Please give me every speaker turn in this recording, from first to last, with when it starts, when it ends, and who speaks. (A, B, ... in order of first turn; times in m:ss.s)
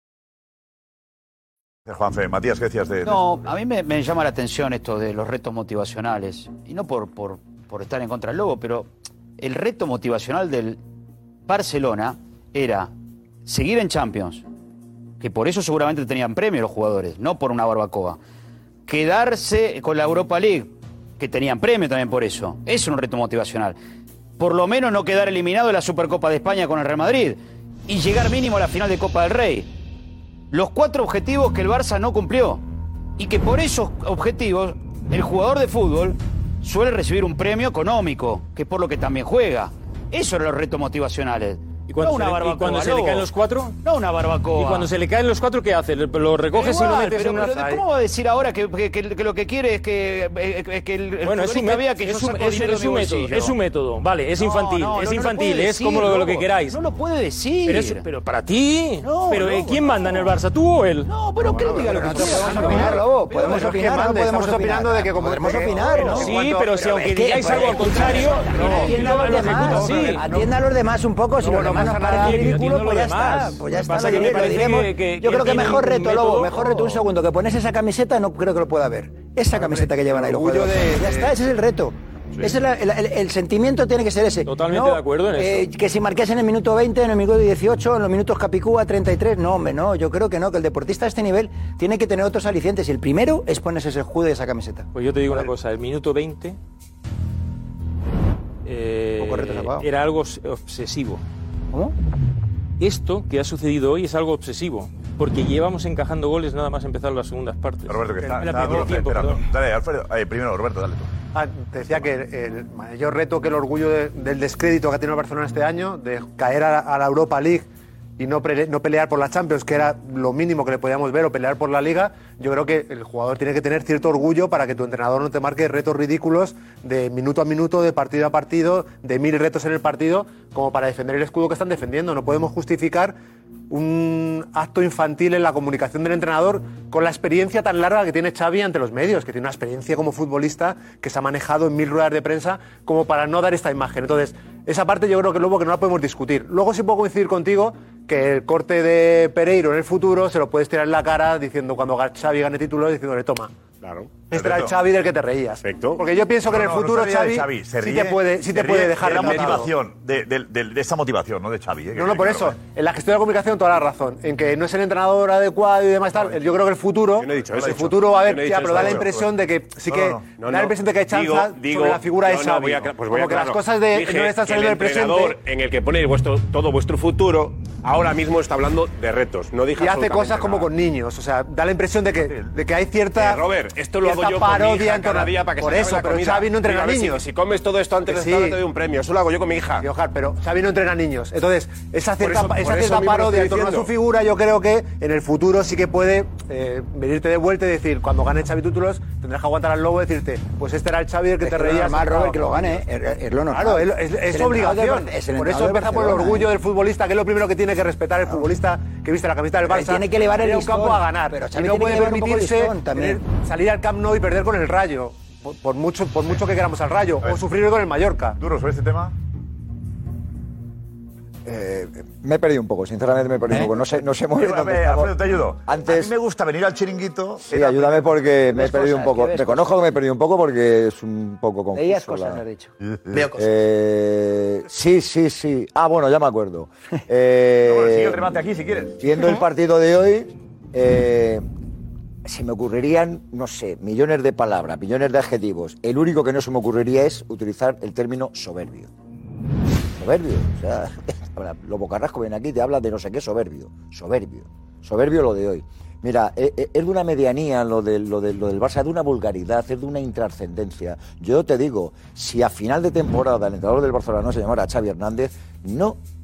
0:01.9-0:03.2 A
0:03.0-0:10.8 B
0:11.5-0:12.9 B
0:13.4-0:14.4 B
0:15.2-0:18.2 B
0:18.8-0:23.8 B
0:24.4-0:29.7 B
0:30.5-0:32.6 B
0:33.2-0:43.3 B
0:41.9-0:43.8 C
0:43.8-0:44.9 B
0:44.5-0:47.8 C
0:46.5-0:53.6 B
0:51.2-0:56.8 C
0:54.4-0:58.0 B
0:57.6-1:01.1 C
0:59.0-1:00.0 B
1:01.1-1:02.8 B
1:01.5-1:06.9 D
1:01.6-1:34.9 E
1:02.2-1:02.8 C
1:06.0-1:10.2 C
1:08.4-1:08.7 B
1:08.4-1:10.5 D
1:11.4-1:12.6 D
1:11.9-1:16.9 C
1:19.5-1:21.3 D
1:24.4-1:25.7 C
1:34.9-1:36.6 C
1:38.6-1:41.2 C
1:39.2-1:39.9 E
1:42.8-1:49.4 C
1:47.9-1:51.1 A
1:51.3-2:13.2 D
2:13.7-2:33.5 D
2:33.8-2:34.2 F
2:34.3-2:39.7 D
2:34.3-2:34.7 A
2:35.6-2:36.0 F
2:36.5-2:42.6 A
2:39.1-2:39.5 F
2:41.9-2:55.4 D
2:47.2-2:49.1 F
2:47.3-2:48.0 A
2:48.6-2:49.3 A
2:49.9-2:50.3 A
2:50.3-3:00.7 F
2:59.8-3:03.4 D
3:02.2-3:02.5 A
3:03.1-3:09.9 F
3:04.0-3:07.2 D
3:08.0-3:08.6 D
3:09.8-3:22.8 D
3:12.2-3:13.9 F
3:21.4-3:26.5 E
3:23.5-3:38.4 D
3:29.7-3:33.2 E
3:38.4-3:39.1 A
3:41.4-3:46.1 G
3:44.3-3:48.1 A
3:47.5-3:52.4 G
3:48.6-3:49.6 E
3:51.7-3:52.7 E
3:53.2-3:58.2 G
3:57.6-3:59.2 A
3:59.0-4:01.4 G
4:02.2-4:08.9 G
4:10.0-4:26.0 G